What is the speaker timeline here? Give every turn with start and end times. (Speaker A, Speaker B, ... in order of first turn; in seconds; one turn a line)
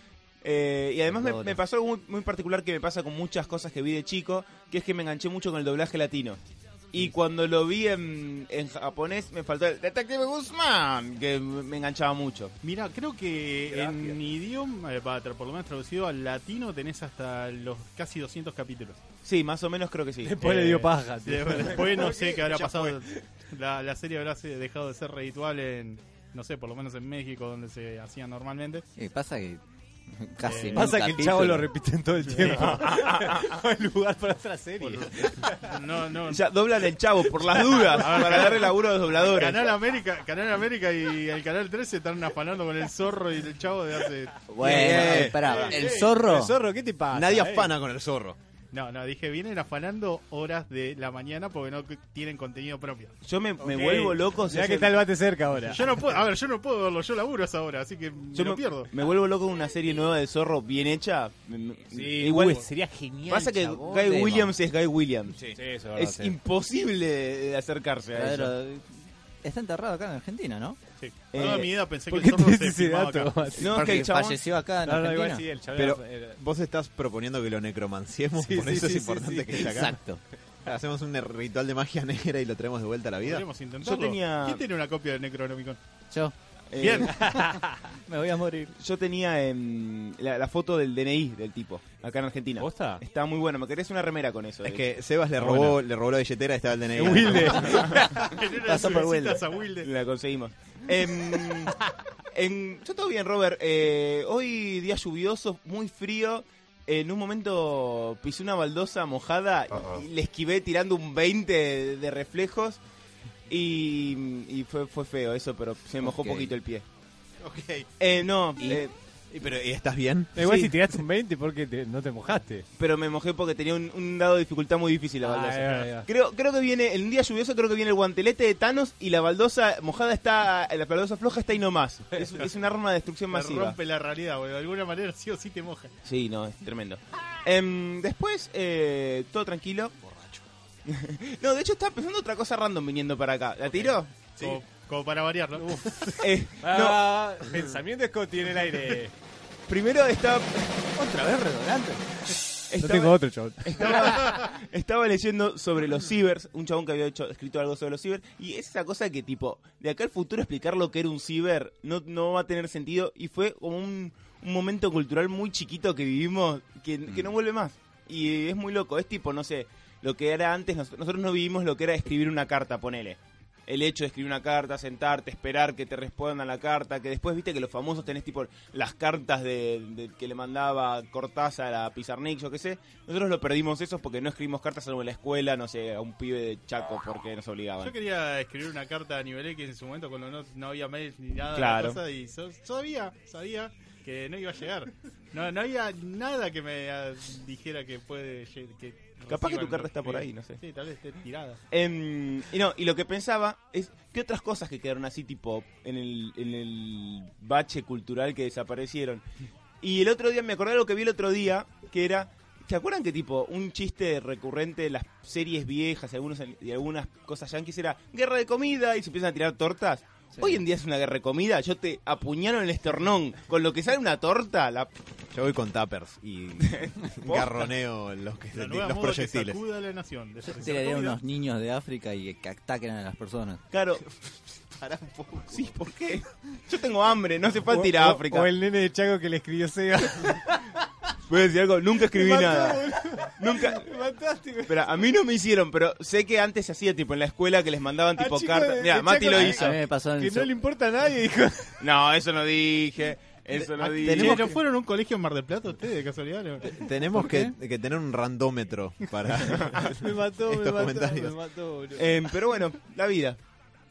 Speaker A: 0.4-6.4
Speaker B: 1.1-1.6
Speaker A: 6.9-12.5
Speaker C: 12.6-19.0
Speaker A: 13.7-14.1
Speaker A: 19.2-20.6
Speaker D: 20.2-23.3
Speaker C: 20.4-28.9
Speaker B: 29.0-31.7
Speaker C: 30.4-30.9
Speaker D: 30.7-35.8
Speaker C: 32.2-32.8
Speaker A: 32.4-33.6
Speaker C: 34.8-36.4
Speaker A: 36.3-39.7
Speaker C: 37.7-46.2
Speaker B: 44.5-46.6
Speaker E: 44.6-45.7
Speaker D: 45.9-47.7
Speaker E: 47.1-48.4
Speaker C: 48.7-53.1
Speaker A: 53.2-55.0
Speaker D: 53.6-56.1
Speaker C: 55.7-58.9
Speaker A: 58.3-62.7
Speaker D: 61.9-64.5
Speaker A: 63.3-68.5
Speaker D: 65.5-66.4
Speaker B: 68.1-70.8
Speaker C: 71.0-73.5
Speaker A: 71.3-71.7
Speaker D: 72.1-74.0
Speaker A: 73.5-74.4
Speaker B: 73.6-75.5
Speaker D: 74.8-76.4
Speaker E: 75.7-80.0
Speaker D: 78.4-80.0
Speaker B: 79.5-80.2
Speaker E: 80.6-83.5
Speaker C: 83.2-85.8
Speaker A: 83.8-84.6
Speaker B: 86.1-86.9
Speaker A: 86.7-87.2
Speaker C: 86.8-87.3
Speaker D: 87.1-87.9
Speaker B: 87.9-88.7
Speaker A: 88.8-94.9
Speaker D: 92.6-93.0
Speaker E: 94.6-97.8
Speaker D: 95.4-95.7
Speaker D: 96.9-98.1
Speaker A: 97.6-98.2
Speaker B: 97.7-99.4
Speaker C: 98.1-99.9
Speaker A: 99.8-112.8
Speaker A: 113.5-116.8
Speaker B: 116.0-116.5
Speaker E: 117.4-117.9
Speaker A: 118.0-118.9
Speaker B: 118.6-118.8
Speaker E: 119.3-120.3
Speaker D: 120.3-122.6
Speaker A: 120.4-120.7
Speaker A: 122.8-133.8
Speaker D: 125.2-126.1
Speaker C: 133.3-135.9
Speaker A: 136.0-139.9
Speaker A: 140.8-144.6
Speaker C: 144.3-145.8
Speaker D: 145.6-149.1
Speaker A: 146.2-147.4
Speaker A: 149.7-150.9
Speaker B: 150.9-152.0
Speaker A: 152.7-187.9
Speaker D: 152.8-154.4
Speaker C: 187.8-201.6
Speaker A: 191.5-192.0
Speaker A: 199.3-200.6
Speaker A: 201.7-209.2
Speaker A: 209.8-224.9
Speaker E: 225.3-229.6
Speaker A: 226.6-227.7
Speaker C: 228.5-231.2
Speaker B: 230.6-233.6
Speaker A: 233.7-234.0
Speaker E: 234.0-235.7
Speaker A: 235.5-238.5
Speaker D: 237.7-240.8
Speaker A: 241.3-242.8
Speaker D: 242.1-244.8
Speaker A: 243.4-243.9
Speaker A: 244.7-249.8
Speaker D: 248.1-251.8
Speaker B: 249.4-250.5
Speaker A: 251.8-254.5
Speaker E: 253.5-254.5
Speaker C: 253.8-256.8
Speaker E: 256.7-261.4
Speaker B: 257.1-257.5
Speaker A: 259.3-259.9
Speaker D: 259.9-262.2
Speaker A: 261.9-263.4